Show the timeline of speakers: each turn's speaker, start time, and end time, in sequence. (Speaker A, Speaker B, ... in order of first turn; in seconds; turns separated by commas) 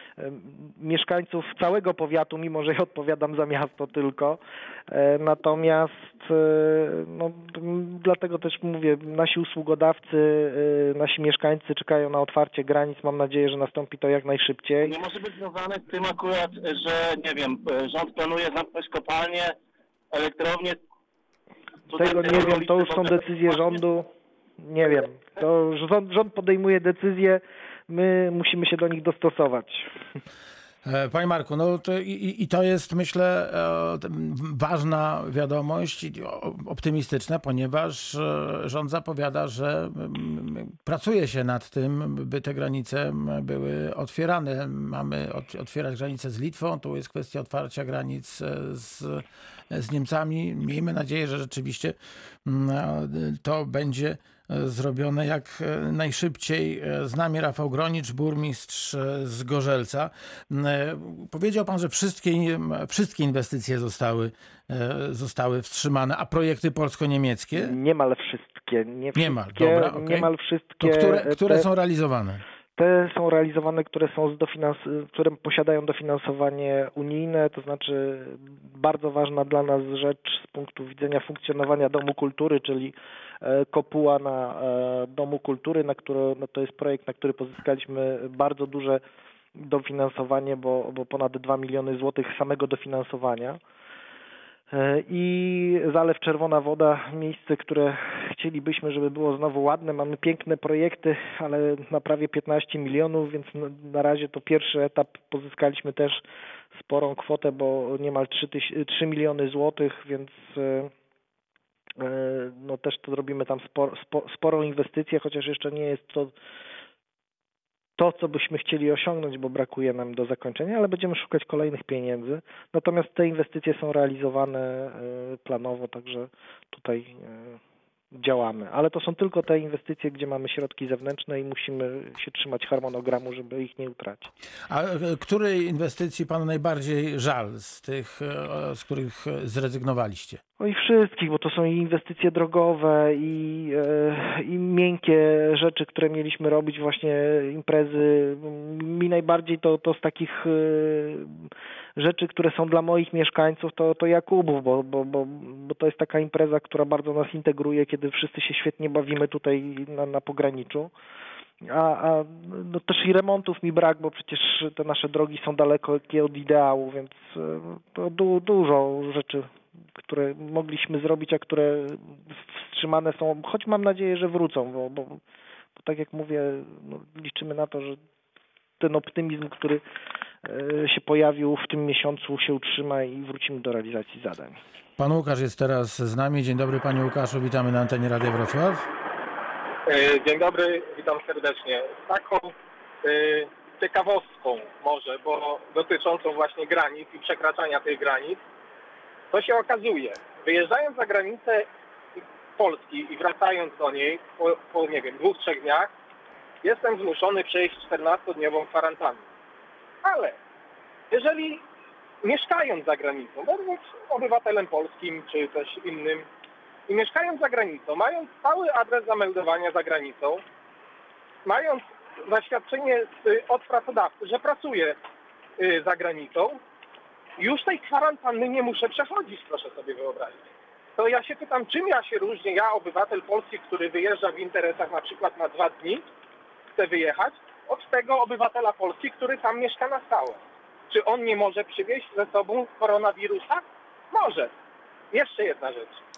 Speaker A: 0.2-15.0, Speaker B: 14.8-19.6, Speaker B: 20.1-20.8, Speaker B: 21.9-23.8, Speaker A: 21.9-24.1, Speaker A: 24.6-29.9, Speaker C: 30.9-67.8, Speaker A: 67.5-71.7, Speaker C: 69.2-72.4, Speaker A: 72.8-89.0, Speaker A: 89.5-93.6, Speaker A: 94.7-106.2, Speaker A: 106.7-110.9, Speaker A: 112.0-116.3, Speaker A: 118.0-127.6, Speaker A: 128.1-134.3, Speaker C: 134.7-140.4, Speaker A: 140.6-160.9, Speaker A: 161.6-175.2, Speaker A: 175.8-178.0, Speaker A: 178.8-179.8, Speaker A: 180.4-184.6, Speaker C: 185.0-188.9, Speaker D: 189.9-198.4, Speaker D: 199.3-201.7, Speaker D: 202.6-205.9, Speaker D: 206.6-209.2, Speaker D: 210.0-210.4, Speaker D: 211.1-211.6, Speaker D: 212.2-216.3, Speaker D: 216.9-220.4, Speaker D: 221.5-225.0, Speaker D: 225.6-226.6, Speaker D: 227.4-230.4, Speaker D: 231.0-236.0, Speaker D: 236.8-240.4, Speaker D: 240.9-244.5, Speaker D: 245.1-246.0